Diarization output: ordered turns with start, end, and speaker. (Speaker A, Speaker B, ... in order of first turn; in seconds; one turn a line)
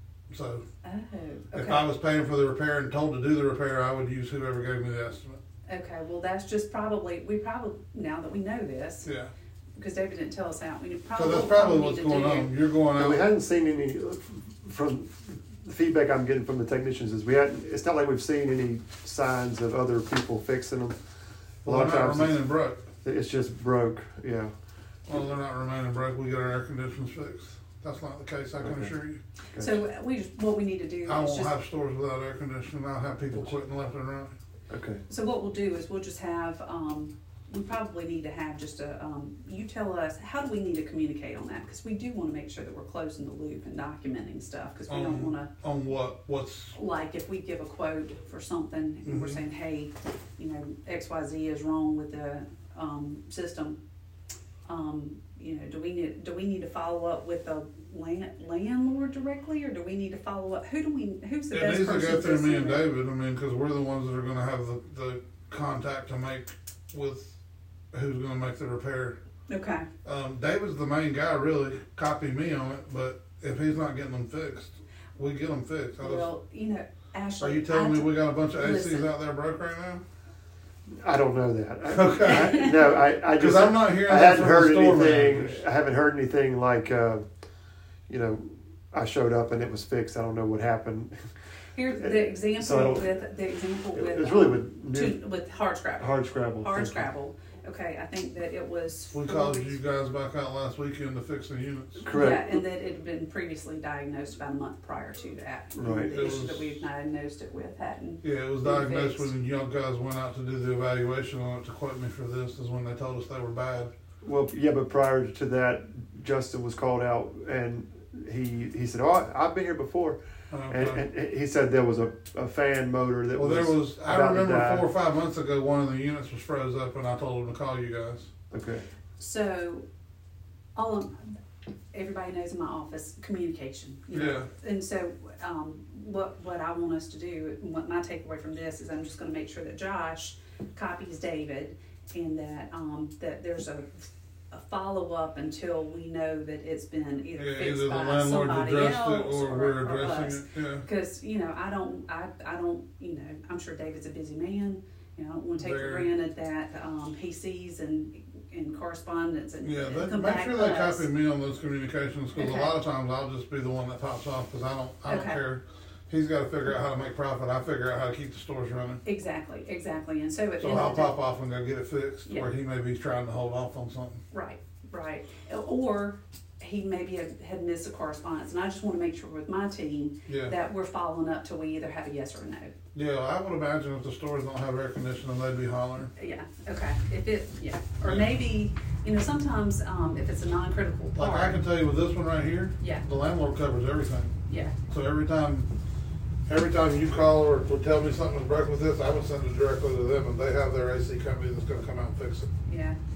Speaker A: 0.3-0.6
Speaker B: 0.8-1.9
Speaker A: 1.5-5.4
Speaker B: 5.7-9.1
Speaker A: 9.0-9.3
Speaker B: 9.8-12.5
Speaker A: 11.2-13.2
Speaker C: 12.9-21.0
Speaker C: 21.6-22.4
Speaker A: 21.6-22.8
Speaker C: 23.0-24.5
Speaker A: 25.1-29.2
Speaker C: 28.6-28.9
Speaker B: 29.5-31.5
Speaker A: 31.1-34.3
Speaker C: 34.7-35.0
Speaker B: 35.1-45.5
Speaker A: 44.9-46.7
Speaker B: 46.7-53.8
Speaker A: 49.0-49.4
Speaker B: 54.7-62.8
Speaker A: 61.5-67.3
Speaker A: 67.9-69.2
Speaker B: 69.5-69.8
Speaker A: 70.0-76.3
Speaker B: 76.0-79.1
Speaker A: 77.4-80.0
Speaker C: 80.9-87.2
Speaker A: 81.9-85.6
Speaker B: 82.2-82.8
Speaker C: 88.1-91.2
Speaker B: 91.7-99.8
Speaker C: 91.9-93.1
Speaker C: 93.9-95.2
Speaker C: 96.0-97.1
Speaker A: 99.1-102.0
Speaker C: 102.0-102.6
Speaker B: 102.1-109.3
Speaker C: 105.7-106.3
Speaker A: 106.1-106.8
Speaker A: 108.2-113.9
Speaker C: 114.2-120.2
Speaker A: 120.5-121.0
Speaker C: 120.7-124.9
Speaker A: 123.3-128.3
Speaker C: 128.5-128.8
Speaker B: 129.2-129.8
Speaker B: 130.8-131.1
Speaker B: 131.9-161.1
Speaker A: 134.1-134.5
Speaker A: 147.3-150.8
Speaker A: 155.6-156.1
Speaker A: 159.6-169.0
Speaker B: 162.3-162.7
Speaker B: 165.1-165.4
Speaker B: 169.0-171.1
Speaker A: 170.6-174.2
Speaker B: 174.3-182.7
Speaker A: 180.3-180.5
Speaker A: 182.9-186.1
Speaker B: 186.2-191.6
Speaker A: 188.0-188.3
Speaker A: 191.2-194.3
Speaker B: 192.8-193.0
Speaker B: 194.5-194.7
Speaker A: 194.9-195.7
Speaker A: 196.5-202.5
Speaker B: 202.7-203.0